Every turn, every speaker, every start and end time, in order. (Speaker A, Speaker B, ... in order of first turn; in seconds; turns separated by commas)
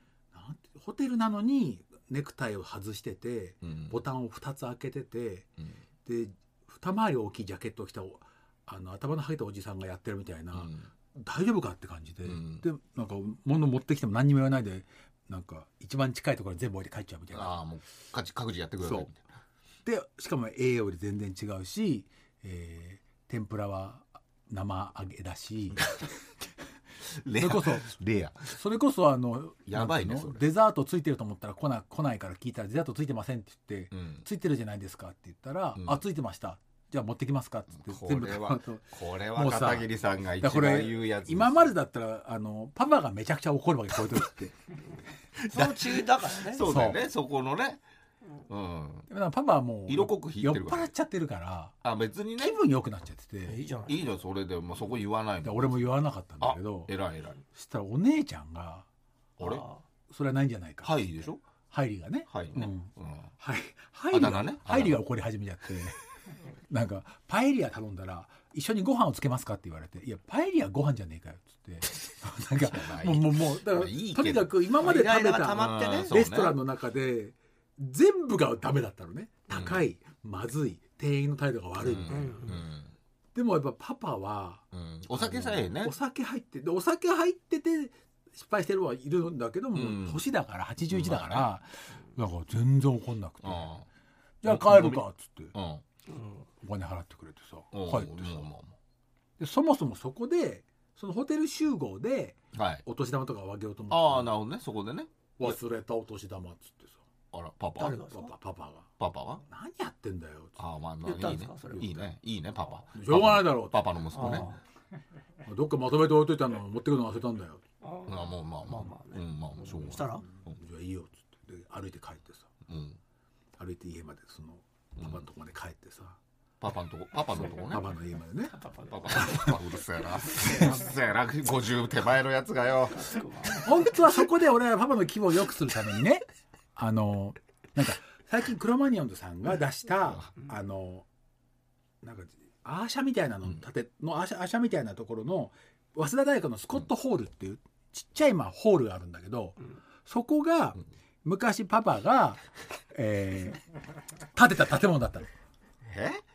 Speaker A: 0.3-5.5, Speaker B: 3.6-4.0, Speaker A: 6.0-17.6, Speaker B: 10.5-10.9, Speaker B: 12.2-12.6, Speaker B: 17.3-19.2, Speaker A: 18.8-19.1, Speaker A: 19.9-25.9, Speaker B: 25.8-26.1, Speaker B: 27.2-28.5, Speaker A: 27.4-27.9, Speaker A: 28.5-44.6, Speaker B: 29.7-30.4, Speaker B: 33.9-34.2, Speaker B: 37.8-41.7, Speaker B: 45.4-47.8, Speaker C: 45.5-46.6, Speaker A: 46.6-47.0, Speaker B: 48.5-49.1, Speaker A: 49.1-51.7, Speaker B: 49.9-50.9, Speaker B: 51.8-52.6, Speaker A: 52.4-53.6, Speaker C: 53.5-54.0, Speaker B: 53.9-55.7, Speaker A: 55.4-56.9, Speaker B: 56.4-57.4, Speaker A: 57.5-58.9, Speaker B: 59.4-59.6, Speaker C: 59.4-59.8, Speaker A: 60.1-66.0, Speaker B: 60.8-61.4, Speaker B: 62.3-63.3, Speaker B: 64.1-65.0, Speaker A: 66.7-82.6, Speaker B: 72.6-74.5, Speaker C: 74.8-76.1, Speaker B: 75.5-76.6, Speaker B: 79.5-79.8, Speaker B: 81.8-82.9, Speaker C: 82.1-82.5, Speaker A: 83.3-84.6, Speaker B: 84.7-85.9, Speaker A: 85.2-93.7, Speaker B: 89.7-90.2, Speaker B: 90.9-91.5, Speaker B: 93.4-93.9, Speaker A: 94.4-95.5, Speaker B: 94.4-95.8, Speaker C: 96.1-96.4, Speaker A: 96.6-98.5, Speaker B: 97.7-98.8, Speaker A: 99.4-104.3, Speaker B: 102.5-102.8, Speaker B: 103.9-105.5, Speaker A: 105.4-107.0, Speaker B: 107.3-108.0, Speaker C: 107.8-108.3, Speaker A: 108.1-108.9, Speaker B: 109.0-109.4, Speaker A: 109.5-110.6, Speaker B: 110.6-114.5, Speaker C: 111.0-111.9, Speaker A: 111.8-112.1, Speaker A: 112.9-114.5, Speaker C: 114.2-114.6, Speaker A: 115.5-117.6, Speaker C: 117.8-120.2, Speaker B: 118.1-120.6, Speaker A: 120.5-122.5, Speaker B: 122.7-123.0, Speaker A: 123.6-126.2, Speaker B: 126.6-127.9, Speaker A: 127.5-128.6, Speaker C: 128.6-129.3, Speaker B: 128.9-133.1, Speaker A: 129.2-129.6, Speaker C: 130.3-130.7, Speaker A: 130.3-130.8, Speaker C: 132.9-133.7, Speaker A: 133.6-136.2, Speaker A: 136.8-141.1, Speaker A: 142.0-152.4, Speaker A: 152.9-153.6, Speaker A: 154.3-155.3, Speaker B: 155.9-156.2